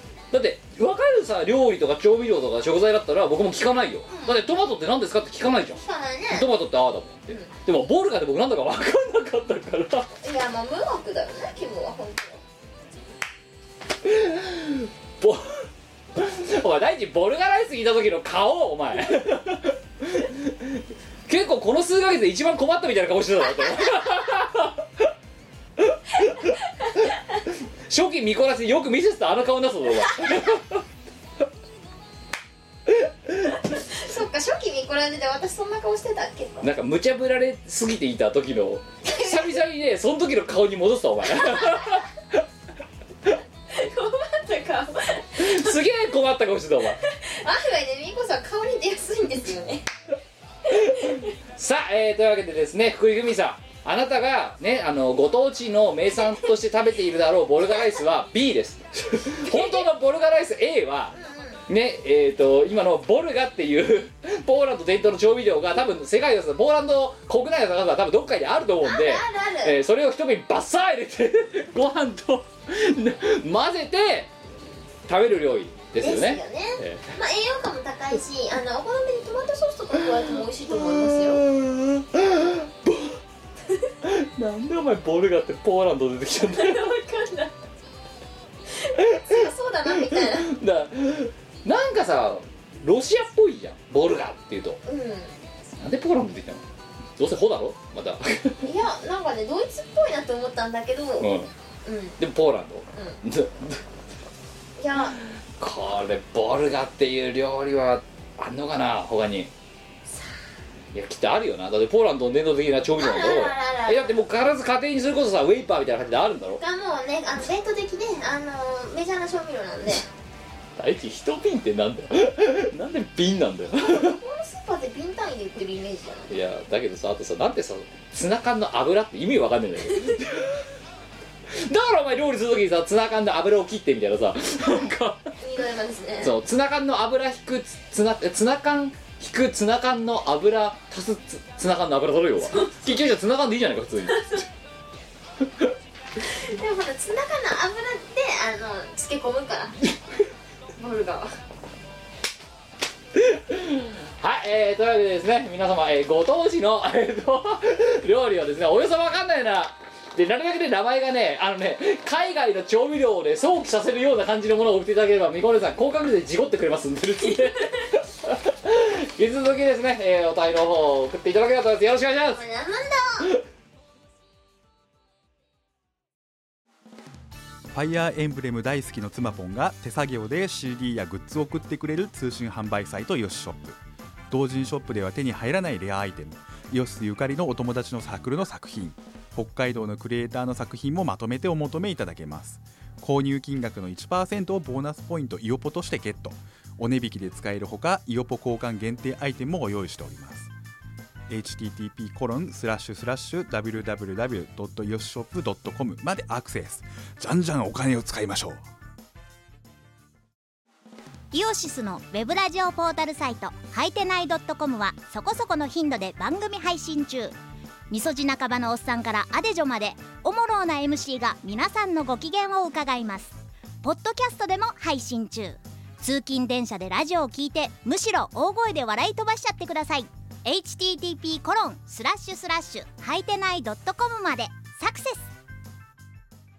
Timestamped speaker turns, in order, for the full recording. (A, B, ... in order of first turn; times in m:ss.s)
0:00.3-0:05.8 A
0:04.1-0:04.4 B
0:05.8-0:06.5 B
0:06.3-0:10.1 A
0:10.2-0:12.4 B
0:14.0-0:25.0 A
0:25.8-0:26.5 A
0:27.9-0:30.8 A
0:33.7-0:36.6 B
0:36.6-0:42.0 A
0:39.0-0:39.6 B
0:41.5-0:41.9 B
0:43.7-0:45.8 B
0:45.4-0:47.0 A
0:47.0-0:49.8 B
0:50.7-0:51.3 B
0:50.7-1:01.1 A
0:56.2-0:56.5 B
0:57.6-0:58.0 B
0:59.4-0:59.9 B
1:01.1-1:01.6 B
1:01.7-1:14.3 A
1:08.8-1:09.8 B
1:15.1-1:17.1 A
1:16.0-1:21.4 B
1:20.8-1:23.2 A
1:24.0-1:26.9 A
1:26.5-1:27.5 B
1:28.8-1:30.5 B
1:29.0-1:29.2 A
1:30.1-1:34.8 A
1:34.8-1:35.3 B
1:35.8-1:36.6 A
1:37.2-1:38.6 A
1:38.6-1:41.3 B
1:41.2-1:41.5 A
1:41.8-1:42.2 B
1:42.2-1:43.8 A
1:44.8-1:45.2 B
1:45.6-1:49.5 A
1:50.1-1:50.3 B
1:50.9-1:56.6 A
1:53.0-1:54.2 B
1:56.6-2:00.0 B
2:00.8-2:04.2 A
2:03.8-2:06.3 B
2:06.3-2:10.6 A
2:11.6-2:15.3 A
2:15.4-2:16.3 B
2:16.2-2:24.4 A
2:22.4-2:23.0 B
2:24.1-2:24.4 B
2:26.4-2:29.7 B
2:30.8-2:31.3 B
2:33.2-2:52.4 A
2:52.3-2:53.3 B
2:57.7-3:03.8 C
3:04.3-3:20.5 C
3:21.3-3:28.6 C
3:31.3-3:37.4 D
3:37.9-3:55.3 D